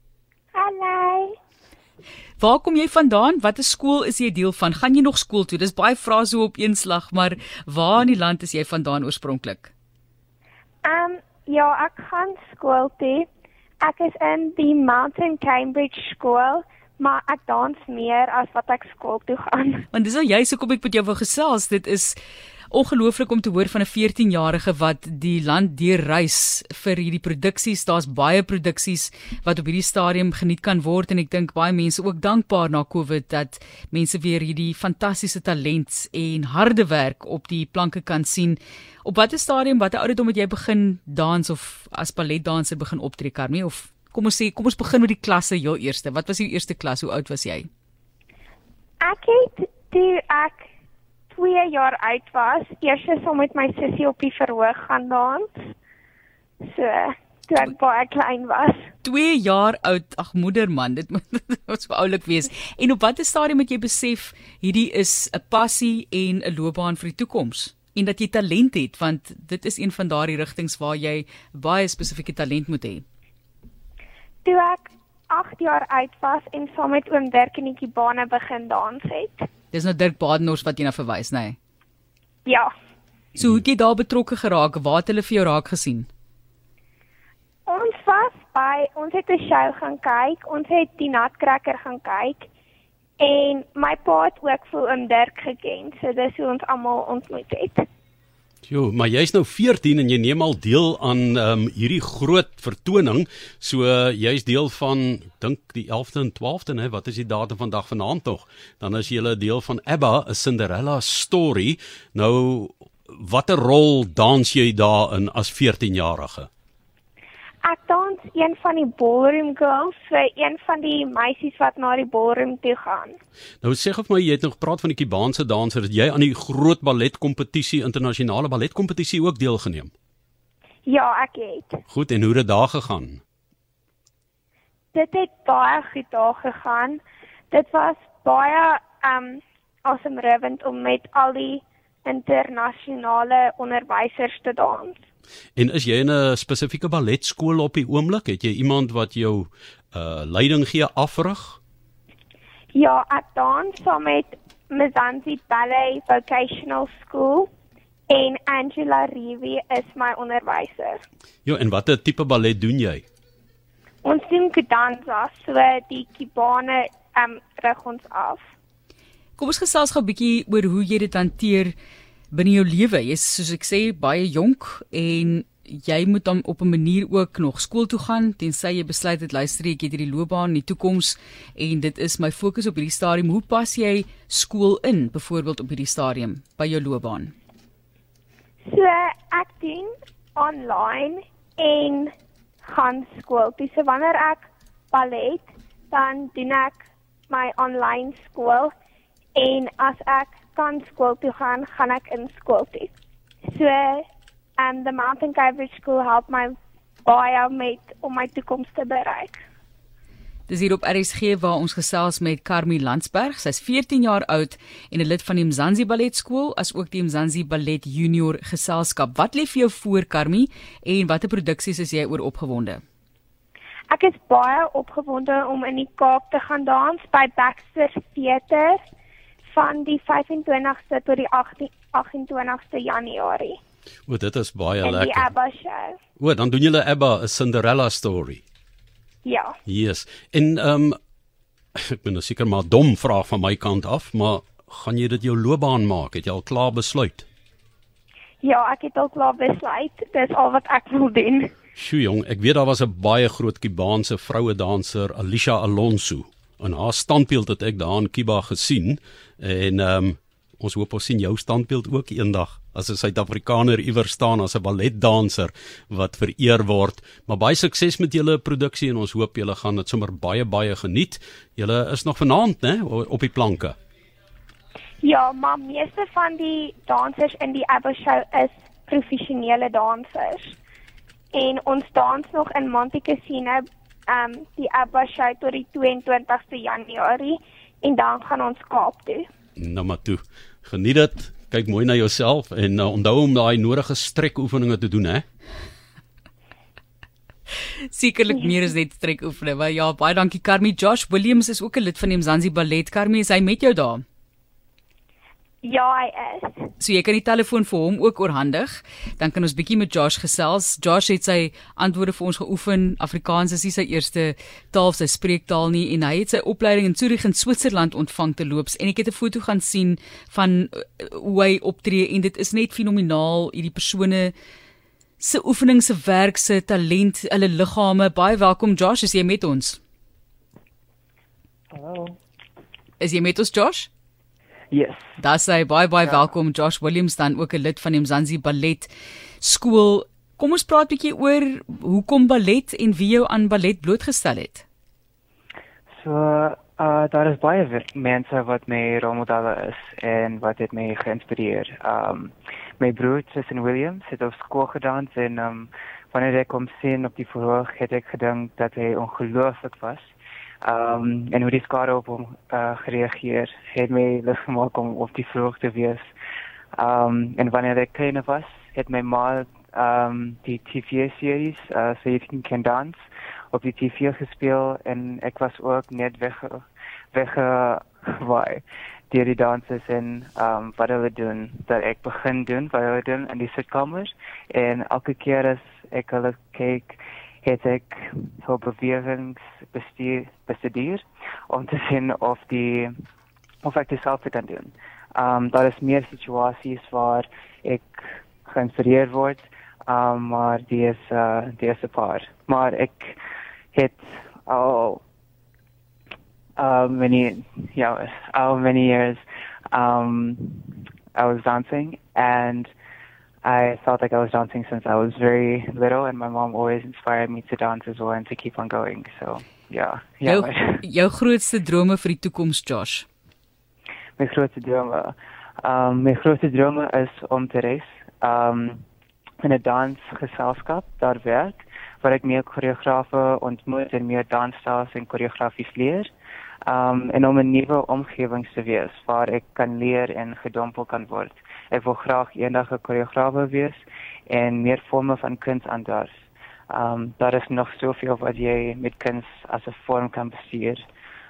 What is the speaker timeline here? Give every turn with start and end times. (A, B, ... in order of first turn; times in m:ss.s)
0:00.5-0:01.3 A
0:02.4-0:09.7 B
0:10.8-0:13.3 A
0:13.8-0:19.9 A
0:19.9-0:22.2 B
0:22.7-0:47.7 B
0:49.0-0:50.6 A
0:51.3-0:55.7 A
0:56.6-0:58.9 A
0:59.0-1:13.0 B
1:14.4-1:19.5 A
1:19.7-1:21.6 B
1:22.4-1:22.7 A
1:23.4-1:26.1 B
1:27.6-1:32.5 A
1:33.2-1:37.8 A
1:38.7-1:56.5 C
1:57.6-2:03.2 A
2:03.6-2:09.9 C
2:10.8-2:11.8 A
2:11.9-2:13.2 C
2:14.9-2:25.0 A
2:25.6-2:31.6 C
2:32.7-2:37.5 A
2:38.1-2:41.0 A
2:41.4-2:43.0 C
2:44.0-2:48.4 A
2:49.4-2:51.7 B
2:52.3-3:07.3 B
3:08.6-3:12.1 A
3:12.6-3:18.7 A
3:19.4-3:22.9 A
3:23.5-3:24.0 A
3:24.6-3:26.5 A
3:27.0-3:29.4 A
3:30.5-3:42.8 B
3:43.9-3:48.8 A
3:49.5-3:53.6 A
3:54.1-3:55.3 C
3:54.8-3:56.0 A
3:56.2-3:58.4 C
3:59.2-3:59.5 A
3:59.6-4:01.0 C
4:01.8-4:07.3 C
4:08.4-4:11.5 A
4:11.8-4:33.7 C
4:35.0-4:40.6 A
4:41.3-4:49.3 A
4:49.6-4:55.2 C
4:57.8-5:04.0 B
5:05.6-5:06.7 A
5:06.8-5:24.3 B
5:25.2-5:29.8 B
5:31.7-5:32.2 D
5:33.0-5:33.9 B
5:34.7-5:35.1 D
5:35.2-5:44.6 B
5:46.0-6:00.1 D
6:00.6-6:06.1 D
6:06.7-6:32.9 D
6:33.6-6:43.2 D
6:43.7-6:45.0 D
6:46.6-6:52.7 D
6:53.4-7:00.8 D
7:00.2-7:03.0 B
7:04.2-7:08.8 D
7:09.4-7:16.1 D
7:16.6-7:26.1 D
7:26.7-7:30.8 D